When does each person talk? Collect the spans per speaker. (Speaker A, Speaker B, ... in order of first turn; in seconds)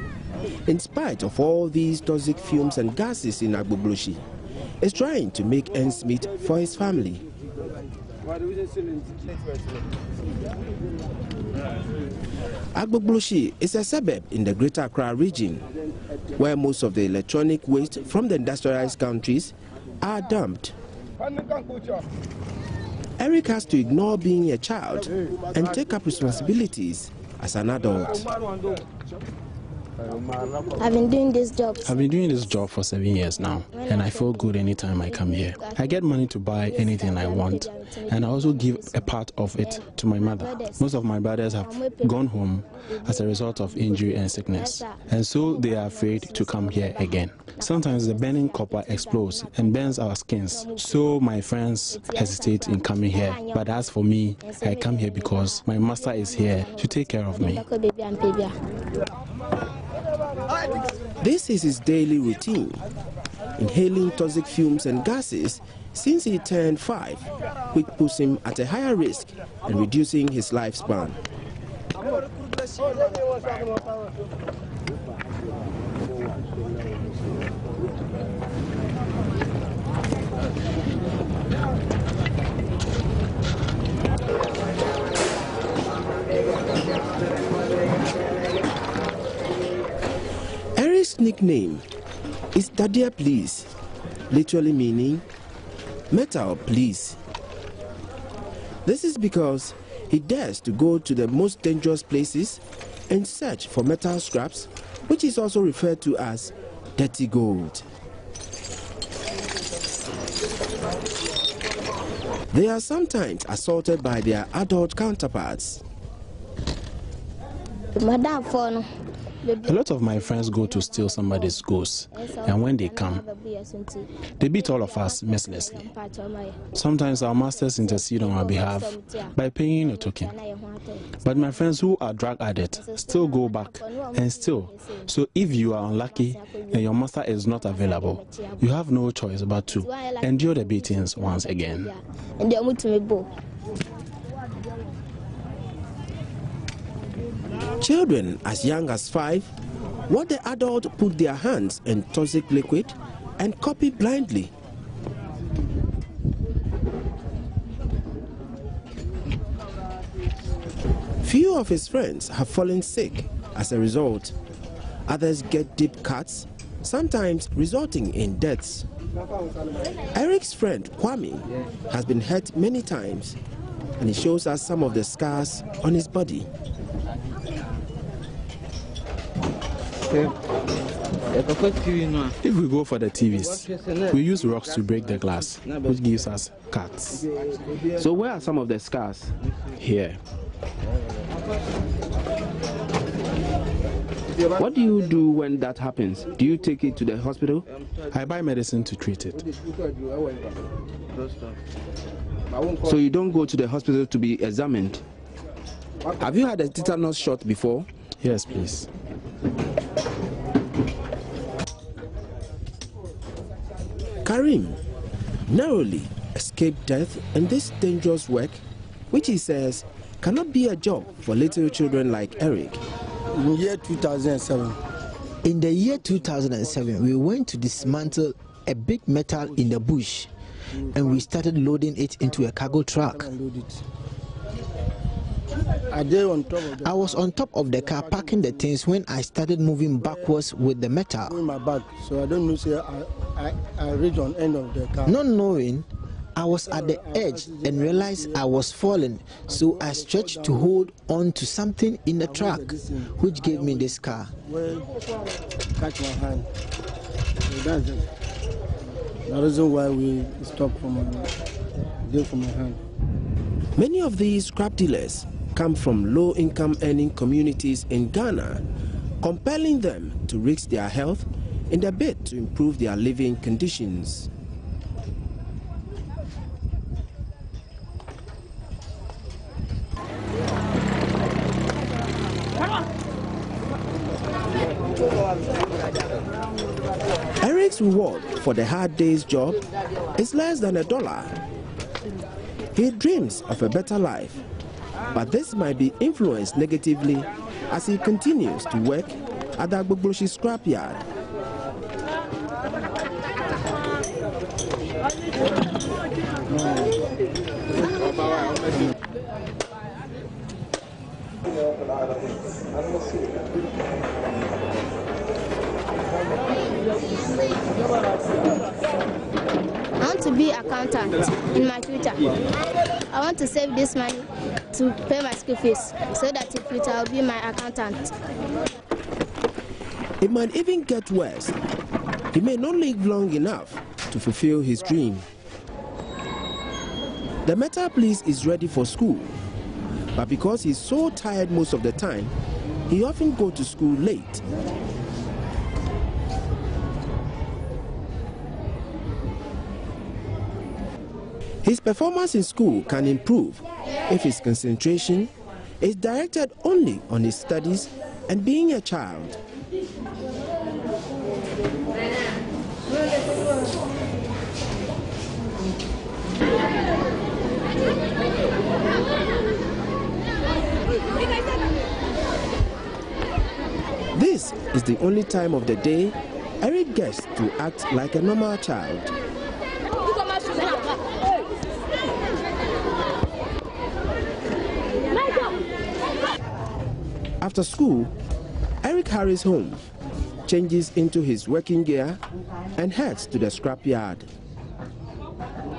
Speaker A: 0.7-4.2, 4.8-7.2, 12.7-15.7, 16.3-20.7, 23.2-28.3, 61.2-62.8, 63.6-71.2, 90.8-91.8, 92.5-93.7, 94.3-95.2, 96.1-97.2, 98.8-107.8, 112.5-115.8, 147.8-149.5, 150.1-154.5, 161.2-164.3, 165.1-168.8, 170.1-173.4, 174.0-176.5, 187.8-189.3, 194.5-197.6, 202.8-205.0, 206.2-207.9, 214.2-214.8, 215.5-222.8, 263.8-268.6, 269.2-274.3, 287.4-289.6, 290.1-291.4, 292.7-294.4, 295.1-301.0, 330.2-331.6, 332.3-335.2, 337.4-339.4, 340.1-342.3, 342.9-344.4, 351.6-359.4, 374.1-379.1, 387.4-388.1, 388.8-389.8, 390.4-392.2, 392.8-394.3
Speaker B: 30.8-32.5, 33.7-36.0, 36.7-39.1, 39.6-40.9, 41.6-42.2, 43.0-51.3, 51.9-53.8, 54.4-58.5, 117.9-118.8, 119.4-126.6, 127.5-131.5, 132.7-135.1, 136.1-136.9, 137.6-138.7, 139.8-143.3, 181.9-182.2, 320.0-322.4, 323.1-328.1
Speaker C: 31.8-57.6, 119.6-123.2, 124.4-125.9, 126.7-130.3, 131.2-141.9, 182.4-187.3, 189.8-190.2, 198.1-199.4, 208.2-208.9
Speaker D: 223.3-224.8, 230.7-231.3, 232.2-233.8, 235.9-238.7, 240.0-240.3, 241.2-245.2, 246.7-248.5, 249.5-250.8, 252.2-254.8, 255.8-256.5, 257.5-258.1, 259.2-261.3, 262.0-262.8, 306.4-307.0, 307.7-308.9
Speaker E: 225.4-230.3, 230.9-233.3, 236.8-241.3, 245.0-254.3